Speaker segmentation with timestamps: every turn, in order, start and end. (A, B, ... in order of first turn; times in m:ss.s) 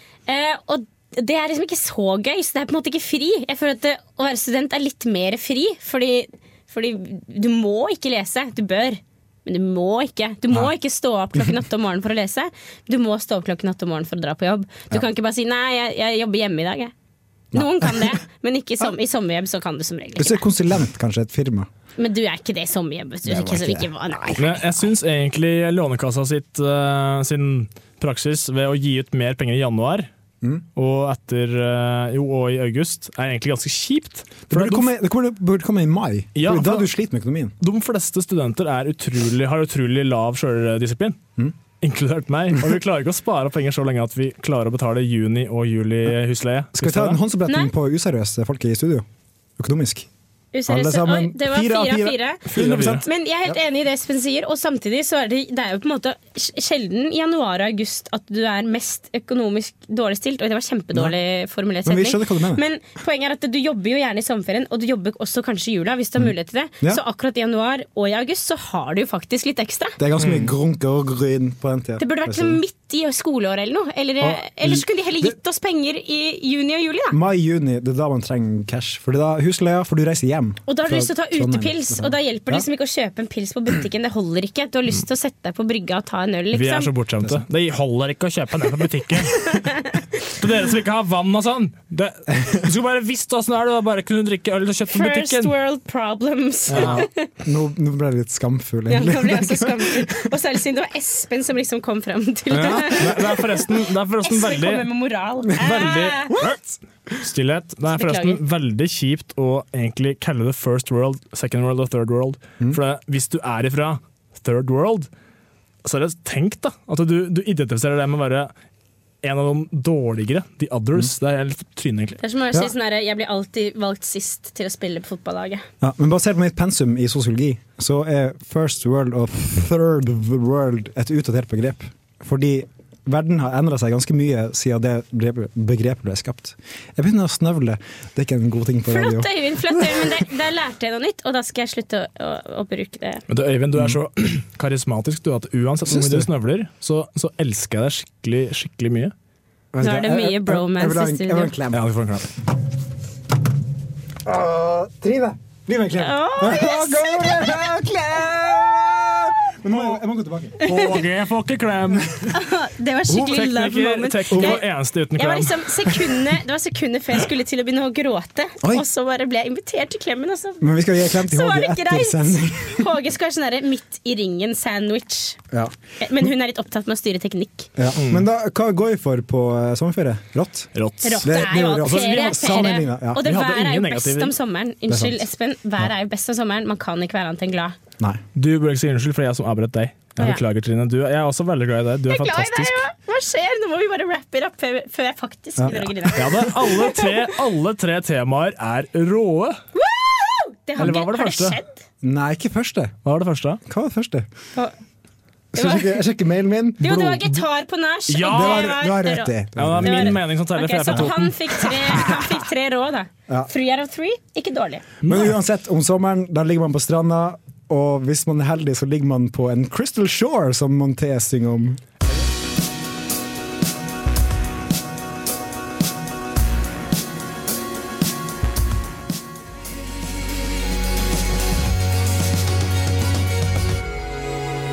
0:00.3-0:16.9 A
0:11.4-0:11.6 B
0:17.5-0:18.2 B
0:17.5-0:20.4 A
0:20.2-0:21.7 B
0:22.0-0:24.7 A
0:23.2-0:24.4 B
0:24.4-0:30.1 C
0:30.8-0:34.9 C
0:34.5-0:37.5 B
0:36.4-0:36.9 C
0:37.6-0:41.2 C
0:41.8-0:47.2 C
0:46.8-0:49.0 B
0:49.6-0:50.1 B
0:50.5-1:10.0 A
0:50.7-0:53.5 B
0:52.5-0:53.0 C
1:01.8-1:02.6 B
1:10.0-1:12.6 B
1:10.2-1:10.5 C
1:12.0-1:17.2 A
1:14.2-1:15.4 B
1:17.1-1:22.7 B
1:20.7-1:26.9 A
1:26.5-1:35.5 C
1:29.5-1:30.0 A
1:34.9-1:37.3 A
1:36.7-1:37.1 C
1:36.7-1:40.3 B
1:38.9-1:43.6 A
1:42.5-1:44.9 C
1:42.5-1:43.2 B
1:44.2-1:46.3 A
1:45.6-1:46.6 C
1:46.3-1:46.8 B
1:47.2-1:55.1 C
1:47.9-1:48.4 A
1:55.8-1:58.5 C
1:59.2-2:02.2 C
2:02.2-2:05.7 A
2:05.8-2:20.1 B
2:18.9-2:23.2 A
2:23.3-2:29.1 C
2:25.9-2:26.3 B
2:29.7-2:31.8 B
2:29.8-2:31.5 A
2:31.7-2:32.3 C
2:34.2-2:40.7 B
2:36.0-2:37.5 A
2:39.7-2:40.0 C
2:40.6-2:42.4 C
2:40.6-2:41.0 A
2:42.3-2:44.6 A
2:43.1-2:46.0 C
2:44.3-2:44.6 B
2:45.2-2:55.4 A
2:50.6-2:52.9 B
2:55.5-2:56.3 B
2:56.0-2:57.7 A
2:57.8-3:00.7 B
2:58.0-2:58.2 C
3:00.8-3:04.3 C
3:01.0-3:07.8 A
3:01.2-3:03.2 B
3:04.9-3:05.2 B
3:08.4-3:12.8 C
3:12.1-3:17.1 A
3:15.6-3:16.2 B
3:16.2-3:19.6 C
3:19.8-3:21.8 A
3:20.8-3:21.6 C
3:22.0-3:23.0 B
3:23.0-3:23.6 C
3:23.7-3:24.3 B
3:25.5-3:26.0 A
3:25.6-3:27.2 B
3:26.8-3:34.8 A
3:26.9-3:27.3 C
3:28.1-3:28.8 C
3:28.2-3:30.2 B
3:29.6-3:32.4 C
3:35.0-3:35.4 C
3:35.0-3:41.8 B